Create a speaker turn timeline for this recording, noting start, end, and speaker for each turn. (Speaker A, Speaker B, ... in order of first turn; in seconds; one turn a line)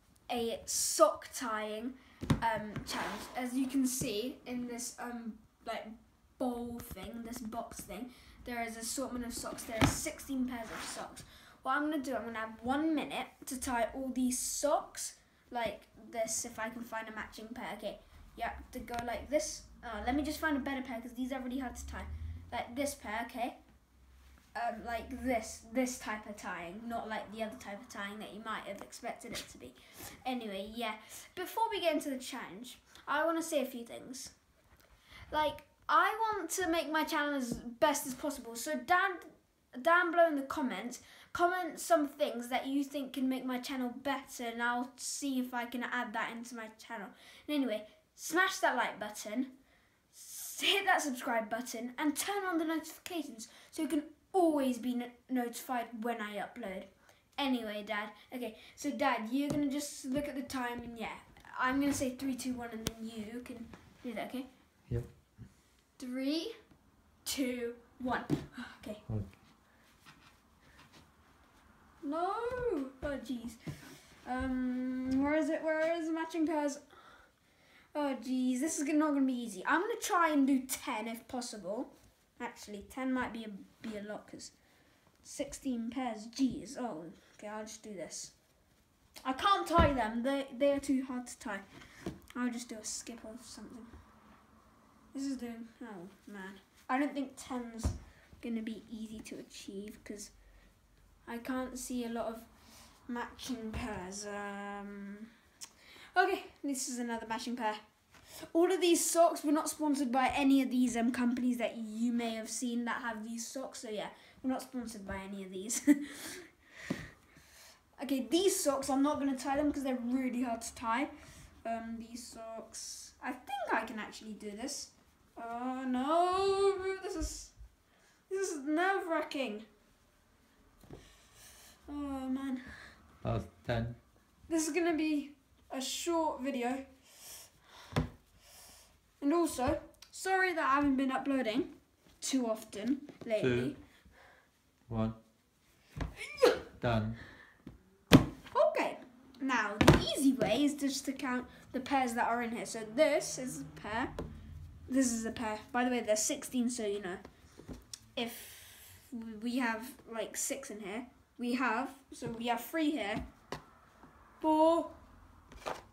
Speaker A: 0.3-23.6
Speaker A: 24.6-34.3
Speaker A: 35.3-49.5
Speaker A: 50.1-64.5
Speaker A: 66.0-66.5
Speaker A: 67.2-69.0
Speaker B: 69.1-69.3
Speaker A: 72.0-73.6
Speaker A: 74.1-77.3
Speaker A: 77.9-84.5
Speaker A: 85.2-88.3
Speaker A: 89.2-91.7
Speaker A: 92.3-93.9
Speaker A: 95.1-100.3
Speaker A: 101.3-102.5
Speaker A: 103.1-105.3
Speaker A: 106.1-107.8
Speaker A: 108.4-116.5
Speaker A: 118.0-121.1
Speaker A: 121.6-127.5
Speaker A: 128.3-129.7
Speaker A: 131.9-132.9
Speaker B: 133.2-134.0
Speaker A: 134.5-136.9
Speaker A: 139.2-143.8
Speaker B: 143.4-143.7
Speaker B: 144.9-145.2
Speaker B: 146.8-147.2
Speaker A: 148.5-154.1
Speaker A: 154.9-157.2
Speaker A: 158.2-163.2
Speaker A: 164.4-164.9